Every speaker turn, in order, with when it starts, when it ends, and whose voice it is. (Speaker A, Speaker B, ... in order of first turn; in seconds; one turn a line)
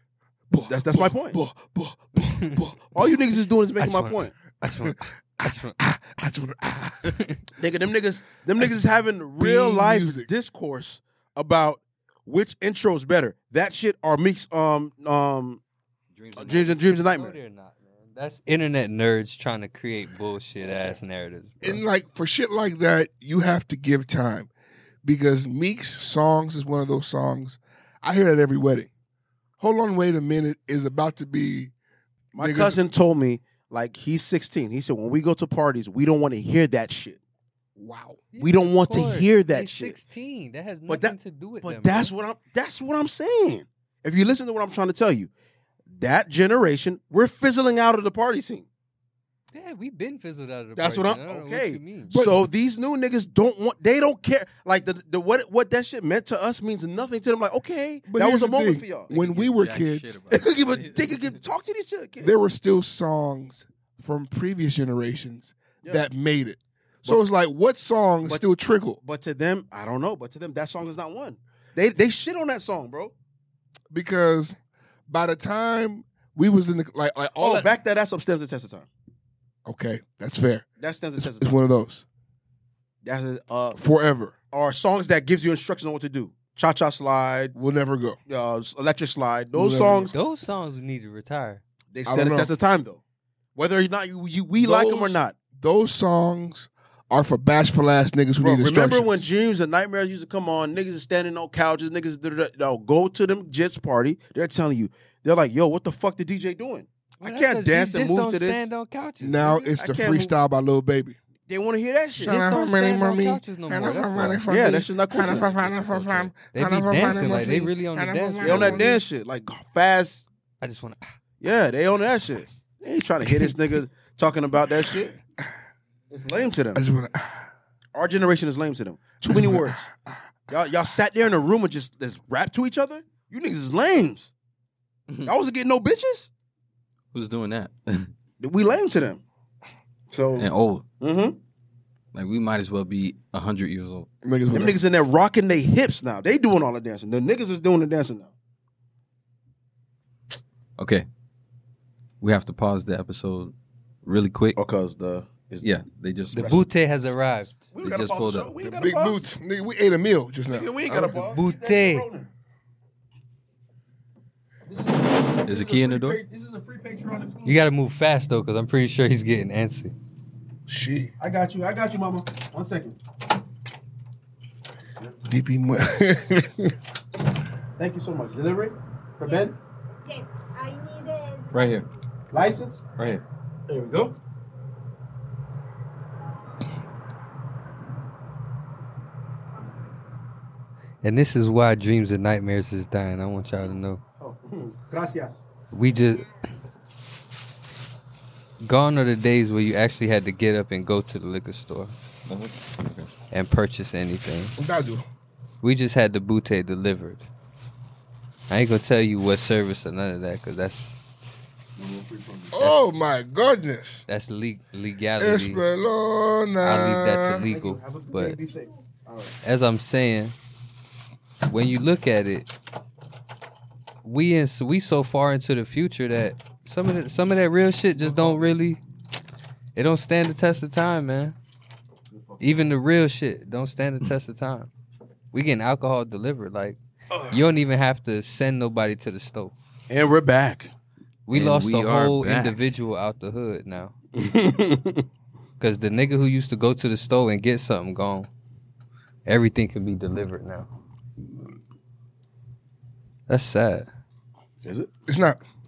Speaker A: 0.5-2.8
Speaker B: 0.7-1.4
Speaker C: 2.2-2.6
Speaker B: 2.9-4.3
Speaker C: 3.8-5.8
Speaker A: 4.8-7.1
Speaker C: 7.1-7.4
Speaker B: 7.6-15.6
Speaker A: 9.4-10.3
Speaker D: 16.1-16.8
Speaker B: 16.3-17.4
Speaker C: 16.5-21.8
Speaker A: 21.6-24.5
Speaker A: 25.0-28.9
Speaker A: 29.6-31.7
Speaker A: 32.3-32.8
Speaker B: 32.3-37.2
Speaker A: 37.8-38.3
Speaker C: 38.3-42.1
Speaker B: 38.4-40.0
Speaker B: 40.9-45.3
Speaker B: 45.9-48.7
Speaker C: 49.5-52.1
Speaker B: 50.8-59.1
Speaker A: 52.1-52.5
Speaker A: 58.1-60.2
Speaker D: 59.1-61.4
Speaker B: 60.3-62.3
Speaker A: 62.2-69.0
Speaker B: 69.0-73.1
Speaker A: 73.9-74.5
Speaker A: 75.1-77.7
Speaker B: 77.4-78.9
Speaker A: 79.7-80.7
Speaker B: 80.8-81.6
Speaker A: 81.2-82.0
Speaker B: 83.0-83.8
Speaker A: 83.7-84.3
Speaker B: 84.5-87.5
Speaker A: 87.5-88.2
Speaker B: 88.3-90.1
Speaker A: 89.5-90.1
Speaker C: 90.1-91.6
Speaker B: 91.9-93.0
Speaker A: 92.0-92.5
Speaker B: 93.5-95.3
Speaker A: 94.6-99.2
Speaker B: 98.4-108.7
Speaker C: 107.2-109.7
Speaker A: 109.2-111.2
Speaker B: 109.7-110.3
Speaker B: 111.5-112.6
Speaker A: 112.1-119.0
Speaker C: 112.2-114.4
Speaker B: 114.5-115.8
Speaker C: 116.0-119.0
Speaker B: 118.4-120.2
Speaker C: 120.6-121.0
Speaker B: 121.4-125.2
Speaker A: 123.2-123.5
Speaker B: 126.1-126.8
Speaker A: 126.7-127.5
Speaker B: 127.9-129.9
Speaker A: 129.2-130.7
Speaker B: 130.5-134.3
Speaker B: 135.2-136.3
Speaker D: 137.1-138.1
Speaker B: 138.4-139.2
Speaker B: 140.1-140.5
Speaker D: 140.3-140.8
Speaker B: 141.0-141.4
Speaker D: 142.1-144.1
Speaker A: 144.2-144.8
Speaker B: 144.5-148.3
Speaker D: 150.8-151.1
Speaker D: 152.2-154.6
Speaker B: 154.6-155.7
Speaker D: 155.6-156.6
Speaker C: 156.3-157.6
Speaker B: 156.3-159.2
Speaker D: 157.8-158.5
Speaker A: 158.6-161.3
Speaker B: 160.5-162.3
Speaker C: 161.3-162.1
Speaker B: 164.7-167.6
Speaker D: 165.4-166.2
Speaker C: 167.4-169.9
Speaker A: 170.7-171.1
Speaker B: 171.2-173.0
Speaker B: 174.8-175.2
Speaker A: 175.3-176.7
Speaker B: 177.8-179.5
Speaker D: 181.5-181.9
Speaker B: 182.3-182.8
Speaker D: 183.0-183.2
Speaker B: 183.7-184.1
Speaker C: 191.0-194.0
Speaker B: 194.2-195.4
Speaker C: 195.7-196.3
Speaker C: 198.6-201.9
Speaker D: 202.3-203.1
Speaker C: 203.3-204.5
Speaker A: 204.6-205.0
Speaker C: 205.6-207.2
Speaker C: 208.5-211.0
Speaker B: 211.8-212.7
Speaker A: 212.5-214.0
Speaker C: 214.1-215.6
Speaker A: 215.2-217.5
Speaker C: 216.6-218.4
Speaker B: 217.4-219.4
Speaker C: 219.4-220.3
Speaker C: 221.5-222.5
Speaker C: 224.0-228.8
Speaker B: 228.0-228.5
Speaker C: 229.7-231.3
Speaker B: 232.1-232.7
Speaker C: 232.4-234.7
Speaker C: 235.3-236.8
Speaker B: 237.1-237.4
Speaker C: 237.3-239.5
Speaker B: 239.9-240.7
Speaker C: 241.3-243.9
Speaker D: 241.3-242.6
Speaker B: 244.1-245.1
Speaker C: 245.6-248.3
Speaker C: 249.2-250.7
Speaker C: 253.3-253.9
Speaker B: 254.6-254.9
Speaker A: 255.1-255.4